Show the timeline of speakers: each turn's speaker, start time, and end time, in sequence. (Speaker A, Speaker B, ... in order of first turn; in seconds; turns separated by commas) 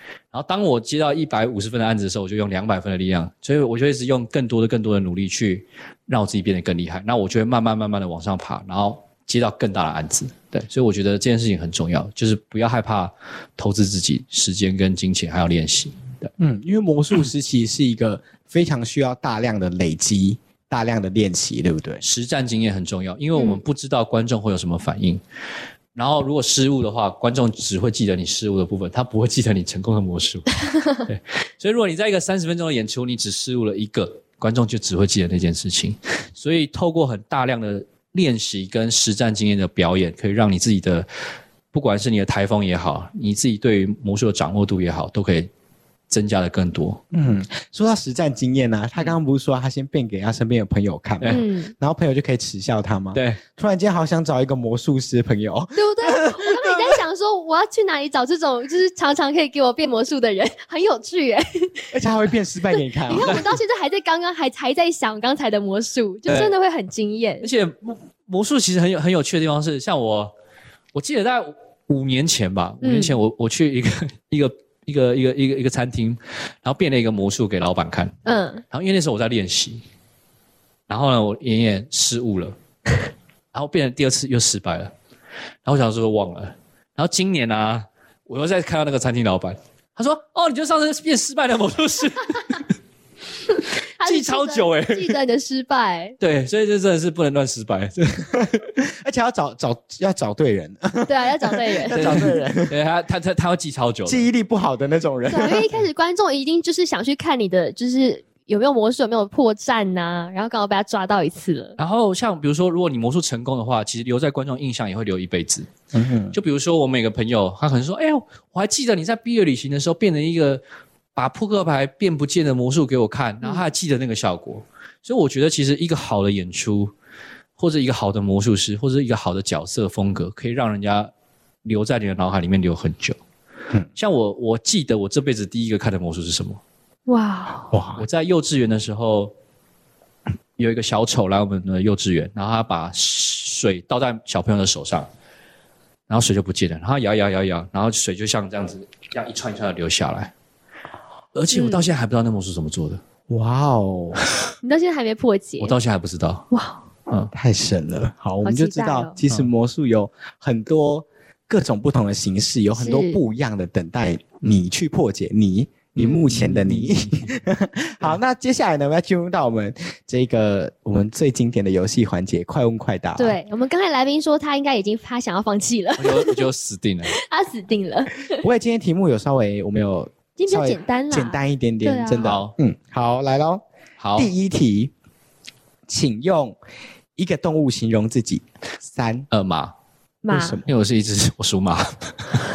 Speaker A: 0.3-16.3, Speaker B: 16.4-22.0, Speaker A: 22.0-25.2, Speaker C: 23.4-23.6, Speaker A: 25.9-41.1, Speaker A: 41.7-45.5, Speaker A: 46.1-47.0, Speaker B: 47.1-57.0, Speaker C: 51.3-51.7, Speaker A: 53.1-53.4, Speaker C: 55.7-61.7, Speaker B: 61.9-63.4, Speaker C: 62.8-67.5, Speaker A: 66.3-66.5, Speaker A: 67.4-70.3, Speaker A: 70.9-78.2, Speaker C: 72.8-73.1, Speaker C: 78.3-78.6, Speaker A: 78.7-79.8, Speaker A: 80.9-82.5, Speaker A: 83.5-84.9, Speaker A: 85.6-92.7, Speaker C: 94.0-96.2, Speaker A: 94.0-95.2, Speaker A: 96.2-98.5, Speaker B: 98.7-102.8, Speaker C: 101.0-102.1, Speaker A: 101.9-104.3, Speaker B: 104.0-105.7, Speaker C: 105.3-111.8, Speaker A: 111.8-115.7, Speaker B: 115.9-116.4, Speaker A: 116.3-120.6, Speaker A: 121.1-126.9, Speaker A: 127.6-131.1, Speaker A: 131.6-133.2, Speaker A: 133.9-136.6, Speaker C: 137.1-137.7, Speaker B: 137.7-138.1, Speaker A: 138.0-139.3, Speaker A: 140.6-145.1, Speaker A: 146.1-150.3, Speaker A: 151.3-153.0, Speaker C: 151.5-151.9, Speaker B: 153.3-154.2, Speaker C: 154.6-155.7, Speaker A: 155.6-156.4, Speaker C: 156.5-156.8, Speaker B: 157.3-173.4, Speaker C: 158.4-159.1, Speaker C: 162.7-163.2, Speaker A: 165.9-167.3, Speaker C: 173.2-176.4, Speaker A: 176.0-177.1, Speaker C: 177.1-178.4, Speaker B: 178.4-183.6, Speaker C: 180.4-182.3, Speaker A: 182.2-182.5, Speaker A: 184.0-184.3, Speaker B: 184.2-184.9, Speaker B: 185.9-186.6, Speaker B: 187.2-189.3, Speaker A: 189.3-189.7, Speaker C: 190.2-190.6, Speaker B: 190.3-190.7, Speaker A: 190.7-192.3